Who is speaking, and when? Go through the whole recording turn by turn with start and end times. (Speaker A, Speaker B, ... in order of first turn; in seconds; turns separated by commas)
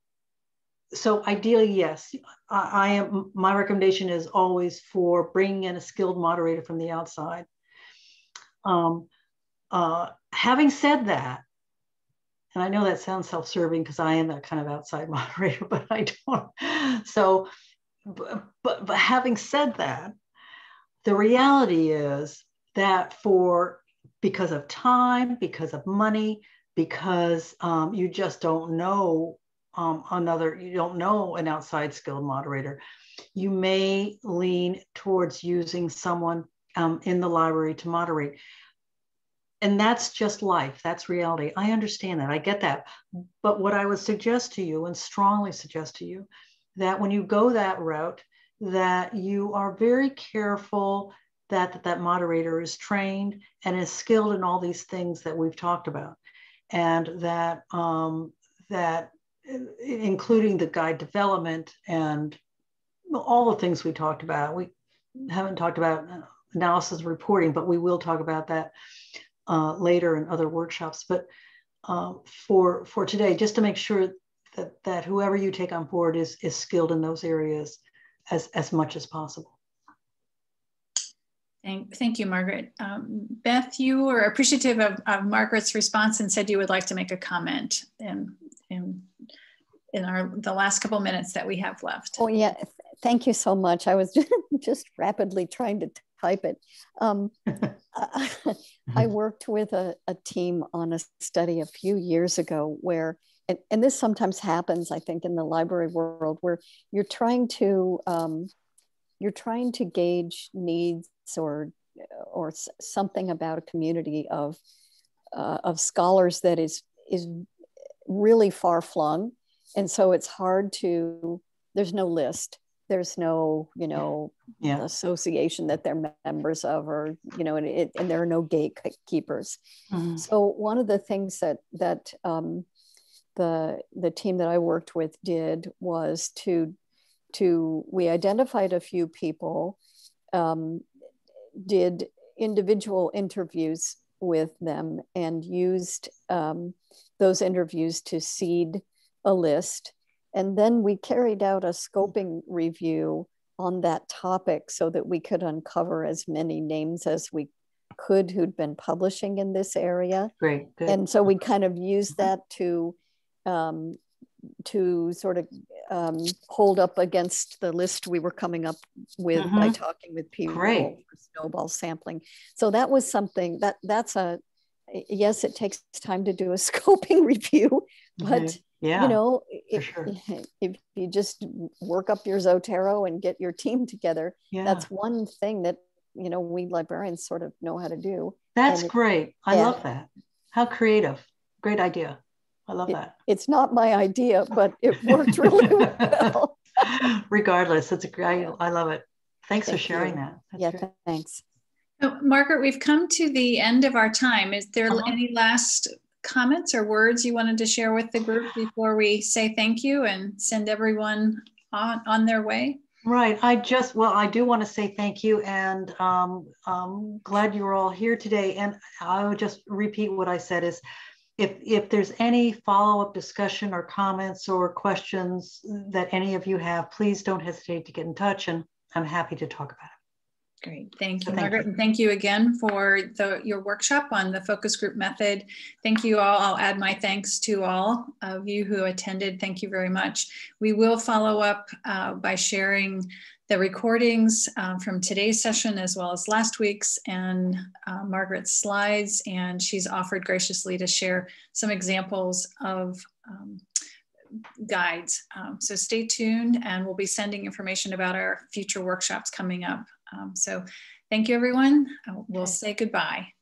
Speaker A: 0.9-7.5, Speaker A: 8.6-9.1, Speaker A: 9.7-11.4, Speaker A: 12.5-17.5, Speaker A: 18.1-20.2, Speaker A: 21.0-32.8, Speaker A: 33.4-38.4, Speaker A: 39.6-56.2, Speaker A: 56.7-62.4, Speaker A: 63.1-68.7, Speaker A: 69.5-71.3, Speaker A: 71.8-79.6, Speaker B: 81.6-89.1, Speaker B: 89.9-92.2, Speaker C: 92.2-108.5, Speaker C: 109.2-114.6, Speaker C: 115.3-117.5, Speaker C: 118.1-129.6, Speaker A: 129.9-130.2, Speaker C: 130.2-132.7, Speaker C: 133.4-136.8, Speaker C: 137.3-139.8, Speaker C: 140.3-140.9, Speaker C: 141.6-160.3, Speaker A: 160.4-161.0, Speaker C: 160.9-164.0, Speaker C: 164.7-188.9, Speaker A: 169.4-169.8, Speaker A: 170.5-171.0, Speaker A: 178.2-179.2, Speaker A: 179.8-180.1, Speaker A: 184.5-184.9, Speaker A: 188.6-193.1, Speaker C: 189.5-189.8, Speaker C: 192.9-196.9, Speaker A: 195.6-200.8, Speaker C: 199.7-201.4, Speaker B: 202.0-212.8, Speaker A: 213.0-220.8, Speaker A: 221.4-229.9, Speaker B: 230.6-253.6, Speaker A: 231.3-231.7, Speaker B: 254.6-263.3